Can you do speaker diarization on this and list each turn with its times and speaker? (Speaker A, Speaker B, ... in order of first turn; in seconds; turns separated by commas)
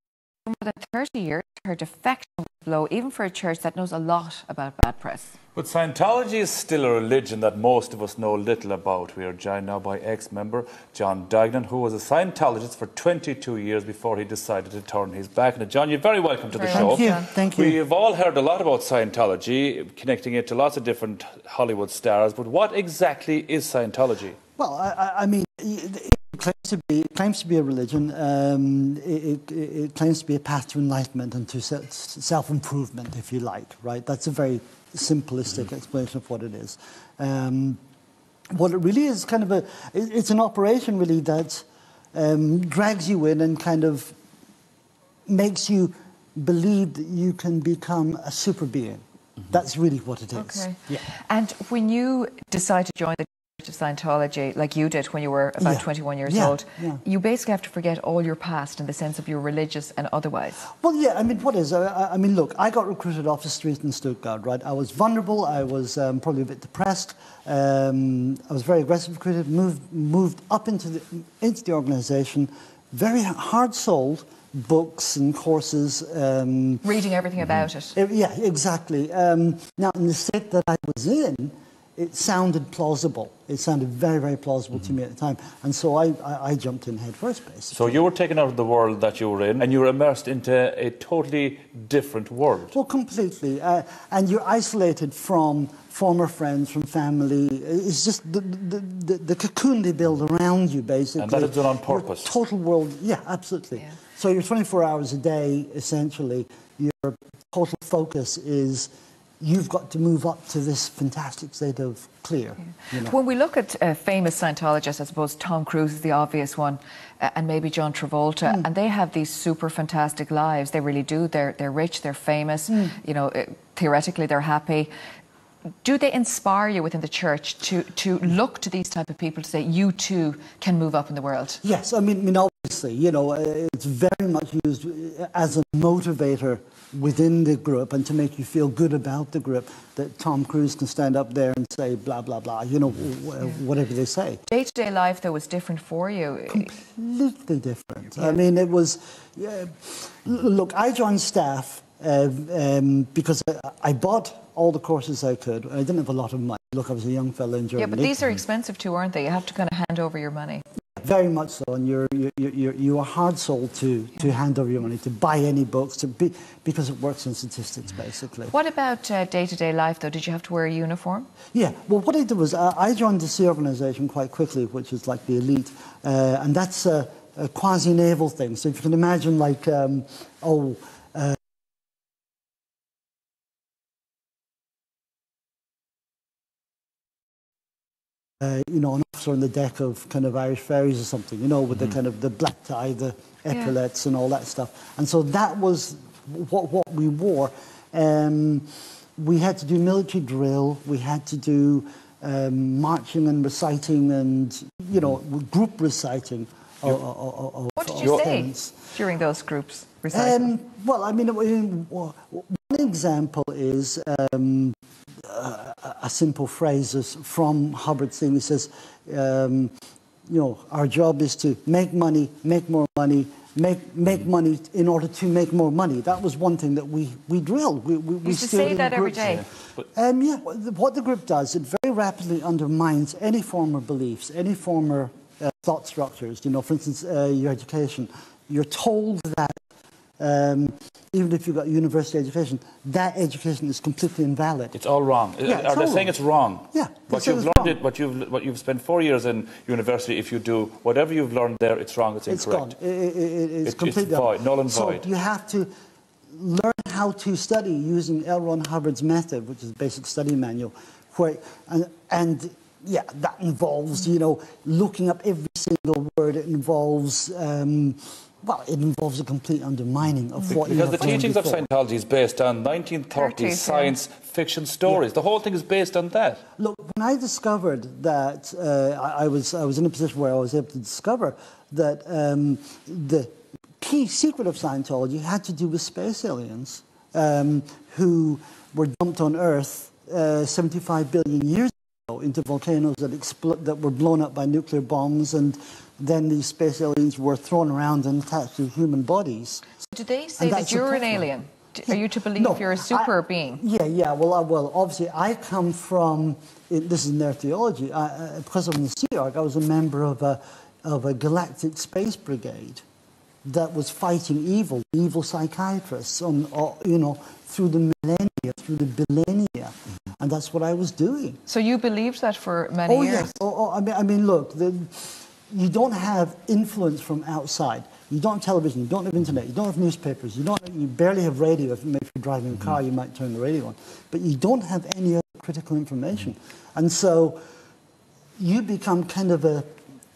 Speaker A: 0.5-5.4, Speaker B: 5.6-24.4, Speaker A: 16.5-17.3, Speaker C: 16.7-17.8, Speaker C: 24.6-37.8, Speaker C: 38.5-44.1, Speaker C: 45.3-51.1, Speaker A: 50.4-60.6, Speaker C: 55.6-57.0, Speaker C: 60.8-76.8, Speaker A: 76.8-78.0, Speaker C: 78.0-88.0, Speaker B: 87.7-92.7, Speaker C: 92.7-113.1, Speaker B: 101.2-102.3, Speaker A: 113.0-124.9, Speaker C: 122.7-123.0, Speaker A: 125.8-131.6, Speaker C: 131.6-144.4, Speaker A: 144.5-146.7, Speaker C: 146.5-158.2, Speaker A: 157.8-160.6, Speaker C: 161.0-168.5, Speaker A: 168.5-171.3, Speaker C: 171.5-181.4, Speaker C: 188.4-208.8, Speaker A: 207.8-210.5, Speaker B: 208.0-208.3, Speaker C: 210.1-219.7, Speaker C: 220.3-239.6, Speaker A: 228.2-229.5, Speaker B: 229.2-229.8, Speaker C: 240.2-244.8, Speaker B: 244.8-252.7, Speaker C: 245.4-246.2, Speaker C: 246.7-247.8, Speaker C: 252.3-255.7, Speaker B: 253.7-255.1, Speaker C: 256.3-271.7, Speaker B: 270.5-276.4, Speaker A: 273.1-274.0, Speaker C: 276.6-299.6, Speaker A: 299.8-303.6, Speaker C: 300.4-301.3, Speaker C: 301.9-312.8, Speaker C: 313.4-321.4, Speaker A: 321.5-323.4, Speaker C: 322.9-337.4, Speaker C: 338.4-339.7